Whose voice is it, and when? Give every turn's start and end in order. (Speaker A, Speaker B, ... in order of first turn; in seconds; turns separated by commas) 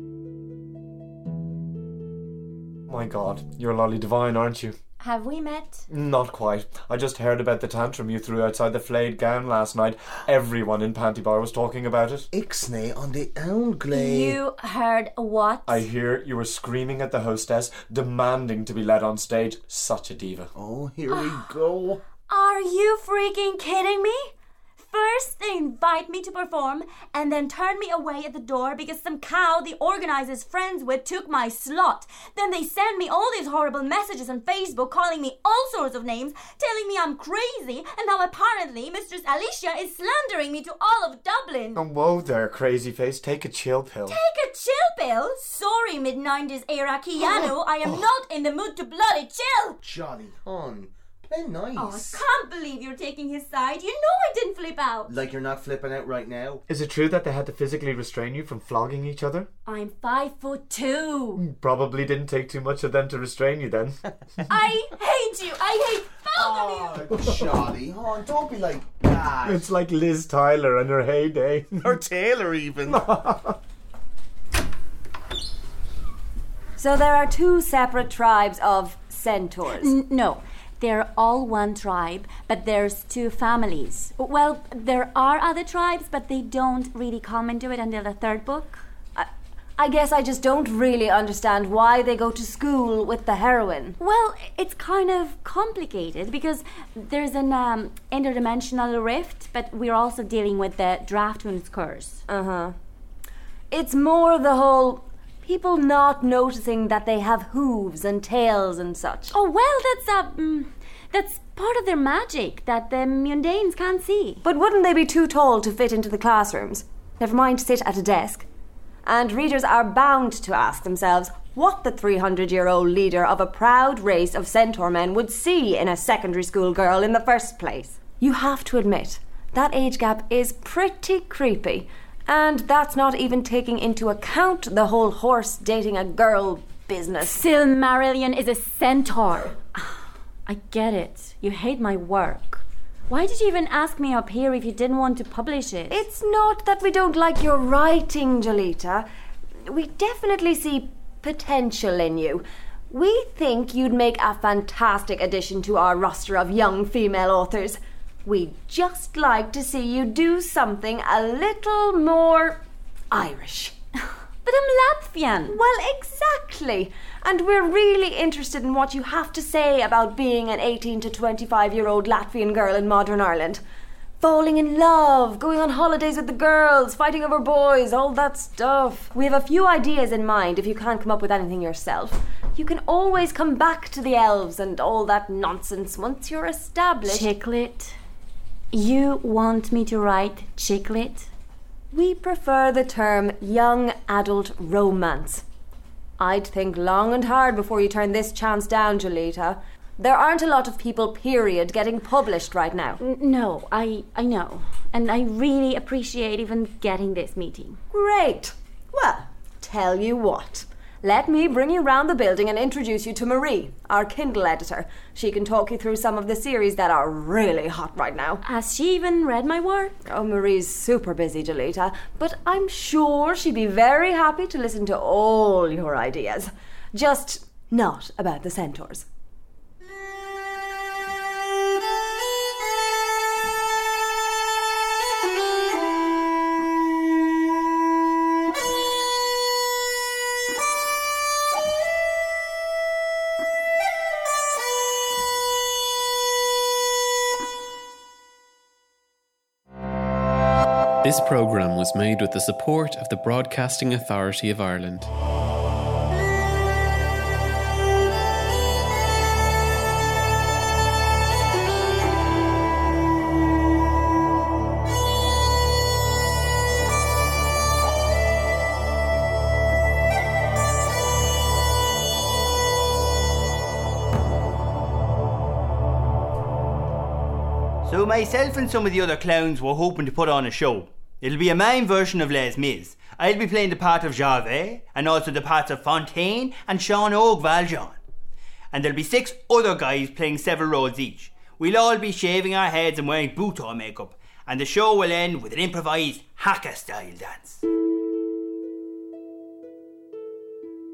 Speaker A: 2.9-4.7, Speaker B: 5.0-5.8, Speaker A: 5.9-12.3, Speaker C: 12.3-14.4, Speaker B: 13.9-15.8, Speaker A: 15.7-20.5, Speaker C: 20.5-22.0, Speaker B: 22.3-41.8, Speaker A: 41.8-44.2, Speaker B: 44.1-49.8, Speaker C: 49.8-52.2, Speaker B: 51.7-55.1, Speaker C: 55.1-56.6, Speaker A: 56.7-59.5, Speaker B: 59.6-61.4, Speaker A: 61.4-64.0, Speaker B: 64.5-66.9, Speaker C: 66.3-69.6, Speaker A: 69.4-71.8, Speaker C: 71.8-73.1, Speaker A: 72.9-73.5, Speaker D: 76.8-79.9, Speaker B: 79.7-88.8, Speaker D: 89.2-94.0, Speaker B: 94.0-102.2, Speaker D: 102.3-102.8, Speaker D: 103.7-109.3, Speaker B: 109.3-114.4, Speaker D: 114.4-118.5, Speaker D: 119.0-137.4, Speaker B: 137.2-146.0, Speaker D: 145.9-149.1, Speaker D: 149.6-163.7, Speaker B: 164.4-165.6, Speaker D: 165.5-173.6, Speaker D: 174.2-187.3, Speaker B: 187.0-188.0, Speaker B: 188.7-191.3, Speaker D: 191.9-195.4, Speaker D: 196.2-203.0, Speaker B: 203.0-207.8, Speaker D: 207.9-218.4, Speaker B: 218.4-219.9, Speaker D: 220.1-229.1, Speaker E: 251.0-255.1, Speaker F: 277.8-288.0, Speaker F: 288.7-297.6